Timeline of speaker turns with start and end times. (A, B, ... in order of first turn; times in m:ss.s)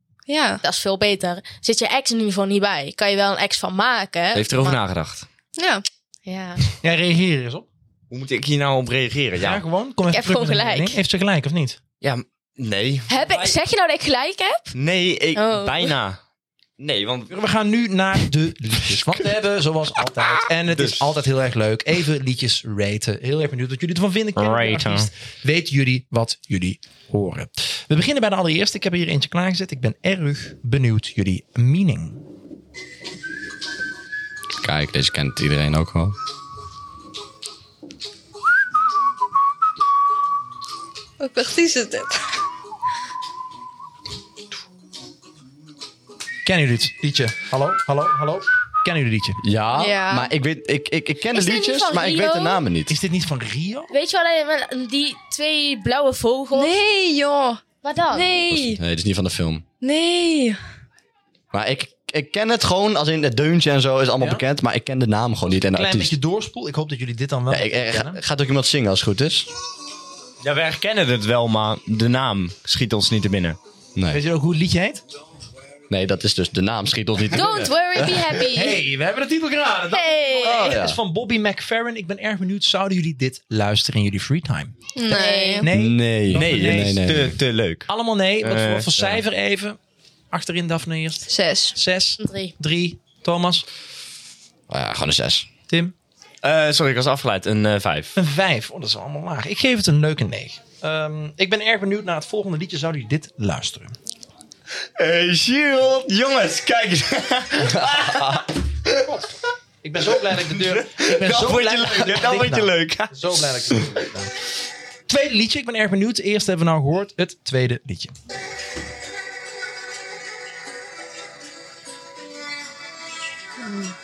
0:00.3-0:00.6 A
0:00.6-0:04.8 B
0:04.3-0:05.2 C
0:05.6-0:05.8 A
0:06.2-0:06.6 B
0:06.8-0:07.6 D
0:08.1-0:09.6 C
0:09.4-0:11.8 D
0:10.1-0:11.0 B
0:12.0-0:13.6 C
0:13.1-0:14.7 B
0:14.7-0:16.2 C
0:15.3-0:15.9 B
0:16.8-0:17.3 C
0:17.3-0:32.2 D
0:20.6-0:21.2 C
0:24.4-0:25.1 C
0:34.6-0:36.2 E
0:41.2-0:42.3 A
0:46.4-0:49.4 D
0:49.4-0:53.0 E
0:49.7-0:50.3 A
0:51.3-0:52.6 B
0:52.9-0:53.9 D
0:53.9-0:56.8 B
0:56.5-0:58.8 A
0:57.8-0:58.4 B
0:58.5-0:59.6 E
0:59.8-1:00.6 A
1:01.5-1:06.1 E
1:05.6-1:08.2 D
1:07.5-1:09.5 E
1:10.4-1:13.6 C
1:14.0-1:14.2 E
1:14.1-1:15.0 D
1:15.9-1:17.7 E
1:17.3-1:18.8 B
1:18.3-1:24.9 D
1:19.9-1:20.8 B
1:20.4-1:21.0 E
1:24.9-1:25.7 A
1:25.1-1:25.7 B
1:25.6-1:27.0 D
1:25.7-1:27.3 E
1:26.3-1:27.9 C
1:27.9-1:29.8 D
1:28.4-1:29.2 C
1:30.3-1:33.6 D
1:31.3-1:31.8 A
1:32.2-1:32.5 B
1:34.7-1:35.5 E
1:35.7-1:35.9 D
1:36.4-1:38.2 C
1:38.2-1:43.9 D
1:45.0-1:49.0 C
1:49.0-1:54.3 D
1:50.3-1:53.9 C
1:55.1-1:58.1 D